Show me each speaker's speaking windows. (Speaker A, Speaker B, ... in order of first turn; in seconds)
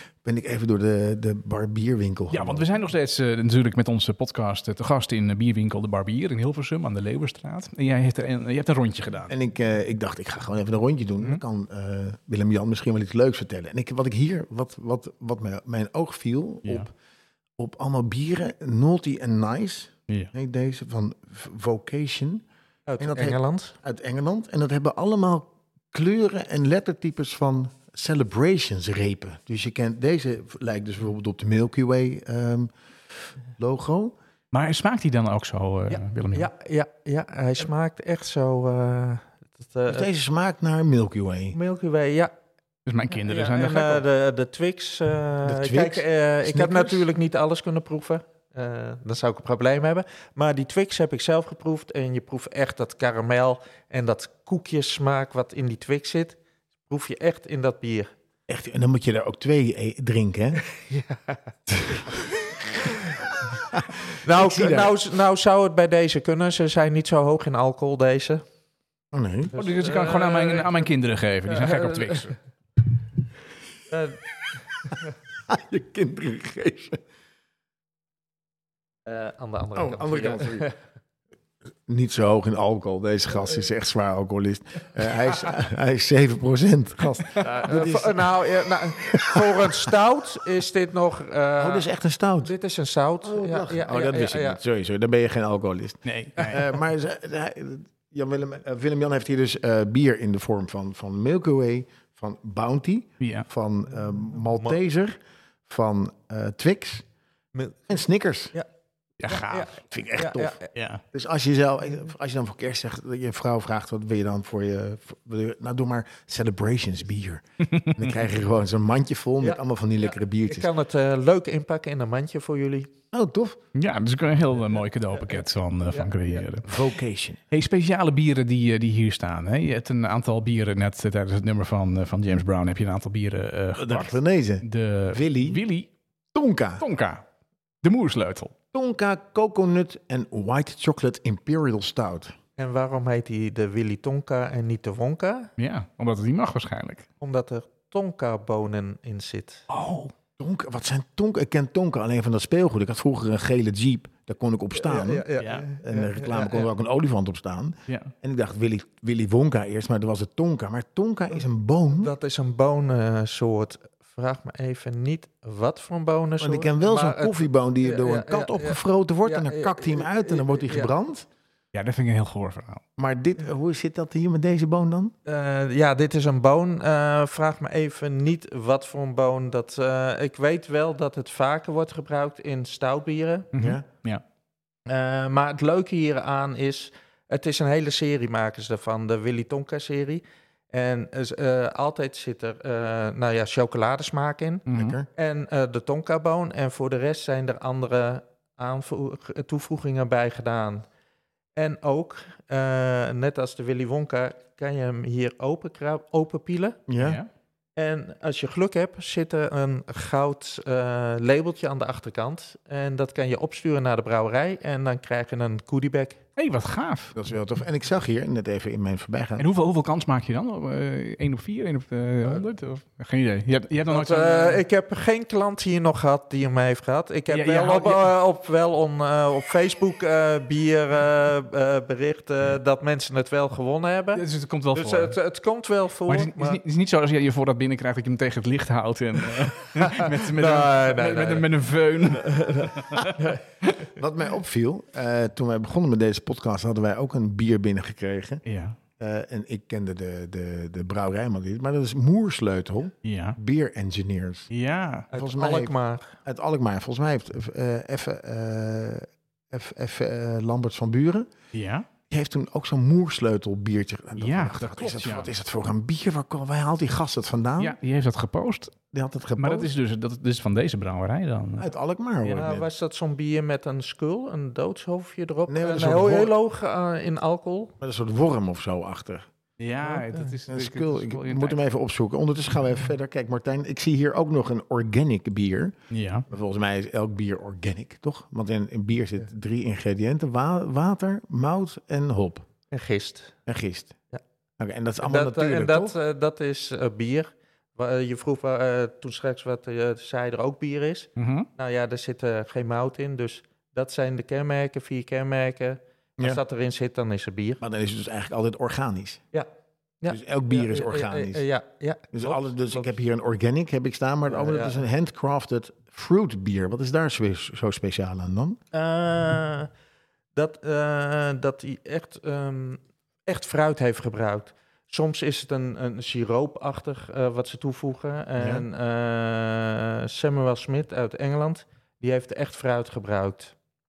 Speaker A: 0.2-2.6, 9.3-16.9, 17.6-22.4, 23.0-32.7, 33.5-34.1, 39.9-41.6, 45.4-47.0, 58.5-60.6, 63.7-65.0, 69.1-69.5, 75.5-77.0, 79.8-80.7, 81.9-88.3, 89.0-89.7, 91.6-92.5, 93.2-107.0, 107.9-108.5, 109.7-110.6, 111.1-120.7, 123.1-123.6, 126.6-127.4, 133.8-135.6, 136.3-136.8, 138.7-142.3, 150.4-155.2, 155.8-162.1, 166.4-171.3, 173.0-175.1, 183.6-183.8, 194.7-195.1, 206.9-207.2, 217.1-219.4, 244.0-248.4, 249.0-254.5, 255.1-261.3, 262.1-267.8, 268.9-269.7, 271.6-272.7, 275.5-276.3, 277.8-279.3, 280.5-285.7, 286.3-292.5, 293.4-294.0, 294.6-295.9, 307.6-309.2, 310.1-311.4, 312.1-318.6, 328.4-328.6
Speaker B: 2.3-9.3, 34.5-36.5, 42.9-44.0, 69.5-72.3, 96.0-96.6, 103.2-103.5, 109.2-109.7, 110.7-111.0, 117.7-118.0, 123.7-126.8, 127.5-135.9, 136.8-137.2, 137.8-138.5, 145.6-147.1, 149.7-150.1, 155.4-155.6, 157.9-158.1, 171.7-172.8, 183.5-184.2, 194.7-195.0, 207.0-207.3, 216.4-217.1, 219.4-224.6, 227.3-228.1, 234.1-235.2, 236.1-243.2, 248.4-248.8, 253.0-253.4, 254.5-255.1, 261.5-261.9, 264.2-265.3, 267.6-268.8, 269.4-271.7, 279.6-281.6, 285.9-286.2, 301.2-301.5
Speaker C: 22.9-23.7, 35.9-40.1, 41.5-42.3, 43.1-58.1, 60.7-61.4, 64.2-68.4, 69.5-70.9, 71.5-72.3, 73.9-74.2, 79.0-80.8, 87.4-91.9, 92.4-94.6, 107.5-107.9, 109.3-110.7, 119.4-122.9, 142.6-145.5, 147.2-149.6, 154.7-156.7, 162.0-170.9, 175.2-183.5, 184.9-200.8, 201.6-206.8, 207.8-216.2, 223.9-236.6, 239.8-241.5, 242.1-243.4, 255.1-256.1, 272.3-277.8, 292.7-293.3, 295.0-307.6, 310.0-312.9, 314.2-314.8, 318.7-319.7, 320.3-333.5